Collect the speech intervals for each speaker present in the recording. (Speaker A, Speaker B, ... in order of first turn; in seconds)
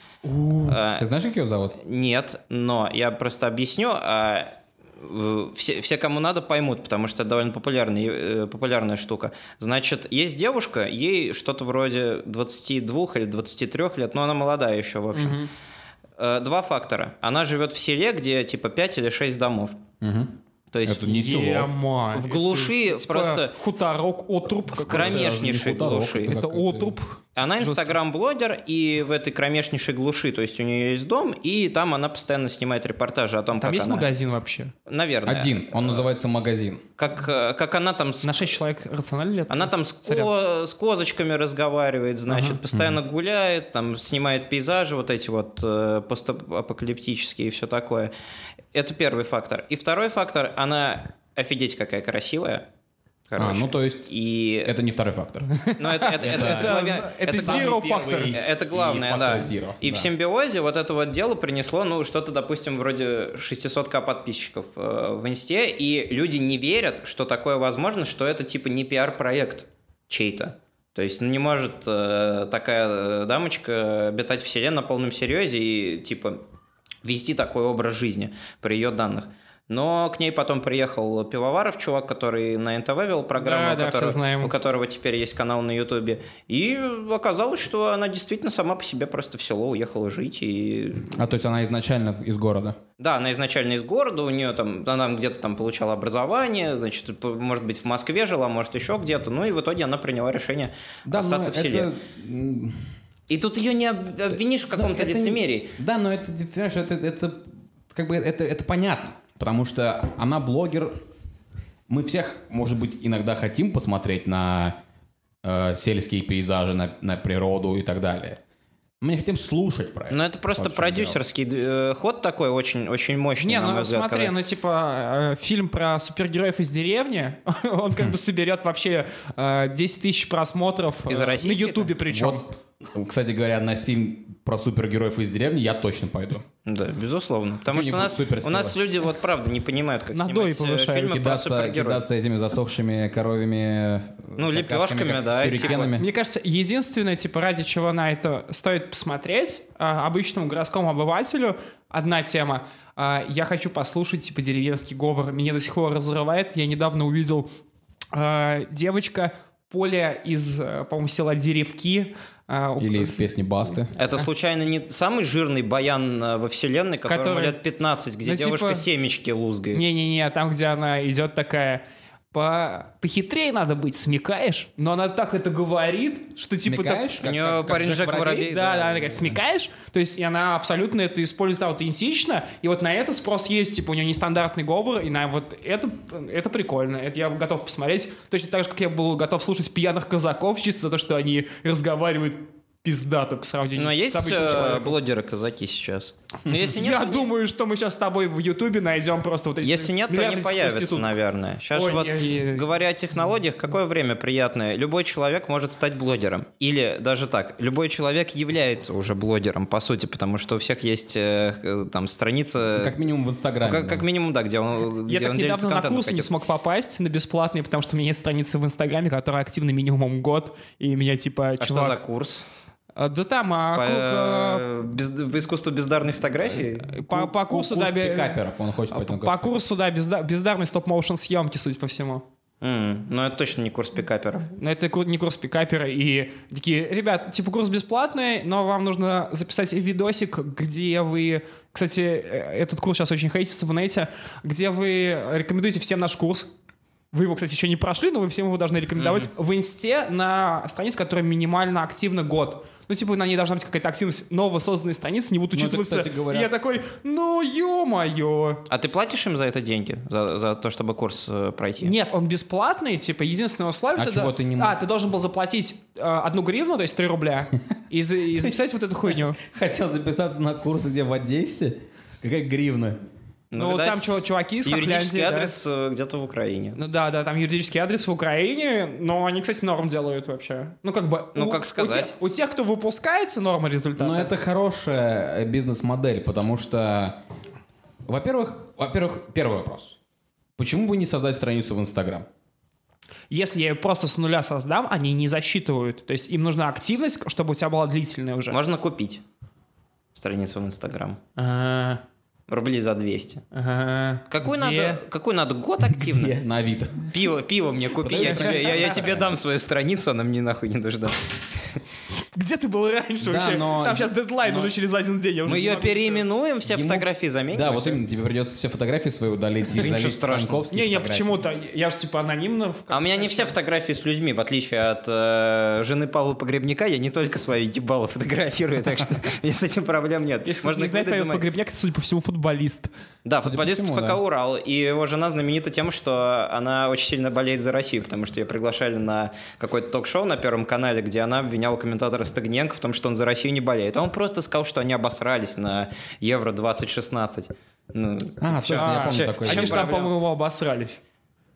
Speaker A: 0.2-0.8, 15.2-15.5, 21.0-25.3, 26.2-28.0, 33.6-34.7, 38.2-40.3, 42.3-42.6, 55.6-58.4, 83.3-84.5, 123.4-132.5, 140.1-141.2, 145.5-157.5, 158.1-163.3, 167.1-167.6, 168.2-168.9, 169.7-177.2, 178.3-195.0, 196.6-201.2, 201.7-202.7, 215.1-222.0, 222.9-224.7, 226.9-232.2, 234.6-246.5, 247.1-258.7, 261.8-269.4, 273.6-275.5, 276.8-284.4, 293.3-298.6, 301.4-302.0, 303.5-305.0, 312.3-316.3, 320.7-323.5, 330.4-332.9, 348.7-351.0
Speaker B: 0.6-1.1, 1.8-15.5, 16.2-19.8, 20.7-21.2, 22.1-23.6, 24.8-26.4, 27.4-34.1, 34.9-36.0, 37.0-38.4, 39.5-48.1, 48.7-52.7, 53.3-54.8, 55.8-57.7, 58.3-76.4, 77.0-91.2, 93.0-101.9, 103.3-105.7, 120.1-124.3, 131.1-131.9, 136.7-142.0, 144.4-145.9, 163.9-169.8, 177.2-179.0, 193.8-197.3, 199.6-213.0, 213.6-216.3, 221.6-222.4, 223.7-226.9, 232.6-234.5, 249.0-249.3, 258.7-261.9, 273.5-276.8, 281.4-282.1, 298.5-299.2, 300.1-301.2, 302.5-303.4, 304.3-306.4, 307.1-311.2, 315.4-318.0, 319.8-320.6, 322.9-331.4, 333.2-350.1
Speaker C: 0.8-1.8, 20.0-20.3, 20.9-21.7, 24.7-27.0, 35.3-36.8, 42.7-43.0, 53.4-54.1, 54.6-55.6, 56.2-60.1, 91.2-92.8, 101.0-102.8, 104.7-111.0, 111.9-114.8, 115.4-118.4, 119.0-121.2, 132.1-136.4, 137.7-138.8, 141.0-146.1, 162.8-163.9, 176.6-179.4, 212.8-214.0, 227.1-229.4, 255.5-256.5, 263.9-264.8, 268.4-273.0, 284.0-287.2, 288.1-290.0, 290.6-292.3, 305.9-307.2, 308.0-309.3, 313.2-314.7, 316.6-321.4, 333.4-334.2, 348.4-349.9